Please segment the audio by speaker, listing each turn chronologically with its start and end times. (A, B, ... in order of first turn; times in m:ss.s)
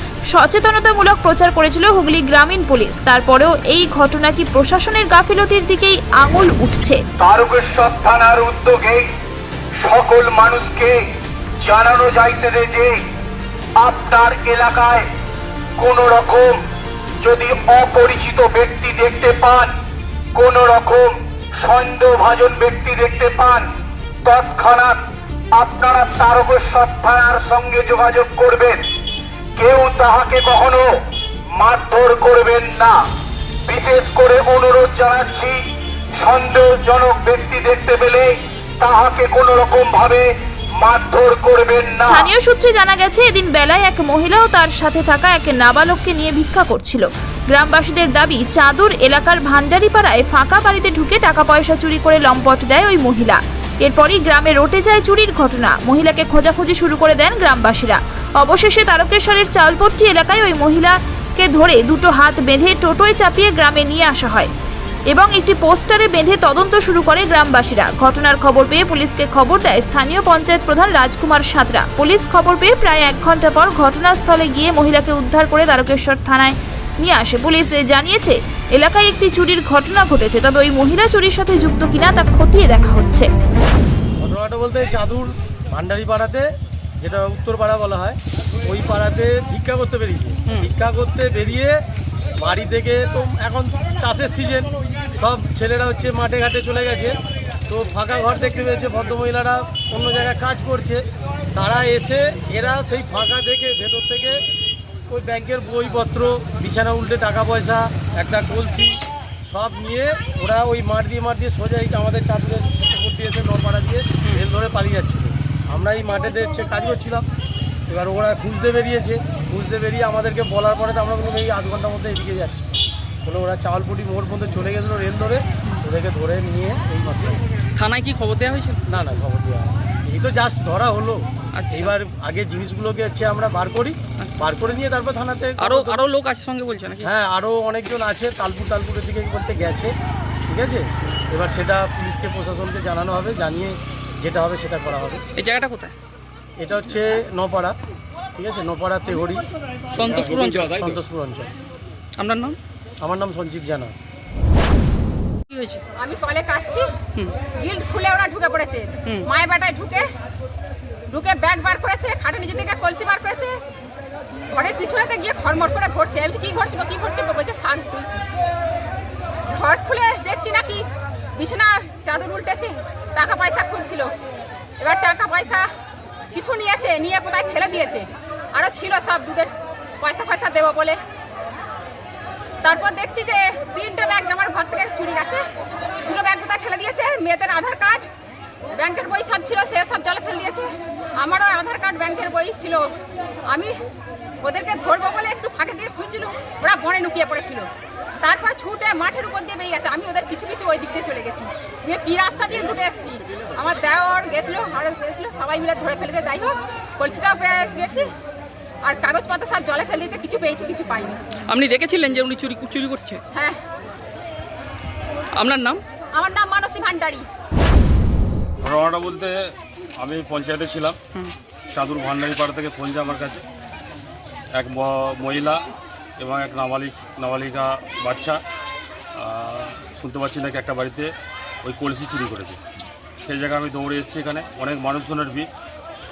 0:00.3-0:07.0 A
0:07.2-0:09.1 B
0:09.8-0:11.0 B
0:11.6-0:13.0 B
0:13.8-0:15.1 B
0:15.8-0:16.6 B
0:17.2-0:19.7 B
0:20.4-0:23.7 B
0:24.2-0:28.9 B
0:29.6-0:30.9 B
0:31.5-0:33.0 B
0:33.7-0:35.6 B
0:36.2-0:42.3 B
0:42.0-1:04.5 A
1:05.1-1:23.3 A
1:24.2-1:26.5 C
1:27.0-1:31.8 C
1:32.4-1:37.2 C
1:37.7-1:41.0 C
1:41.5-1:44.4 C
1:45.1-1:57.3 C
1:57.9-2:07.5 C
2:07.8-2:08.8 D
2:08.9-2:16.0 C
2:11.5-2:11.9 D
2:14.2-2:14.5 D
2:15.6-2:17.1 D
2:17.0-2:19.9 C
2:20.5-2:25.2 C
2:25.4-2:25.9 D
2:26.6-2:27.8 C
2:28.4-2:29.5 C
2:30.0-2:31.0 D
2:30.0-2:31.5 C
2:32.2-2:32.6 D
2:33.0-2:33.9 C
2:35.5-2:35.8 D
2:36.0-2:40.1 E
2:37.2-2:37.4 D
2:41.1-2:43.6 E
2:44.5-2:48.2 E
2:49.5-2:54.1 E
2:54.8-2:55.7 E
2:56.3-3:01.0 E
3:02.6-3:05.5 E
3:06.0-3:08.1 E
3:08.7-3:12.9 E
3:13.5-3:13.8 E
3:14.4-3:17.7 E
3:18.2-3:28.1 E
3:28.8-3:31.3 E
3:31.5-3:33.2 D
3:35.4-3:35.8 D
3:36.1-3:37.3 E
3:38.6-3:41.0 F
3:41.7-3:43.4 F
3:44.6-3:45.6 F
3:46.2-3:48.4 F
3:49.2-3:51.1 F
3:51.6-3:52.6 F
3:53.2-3:55.5 F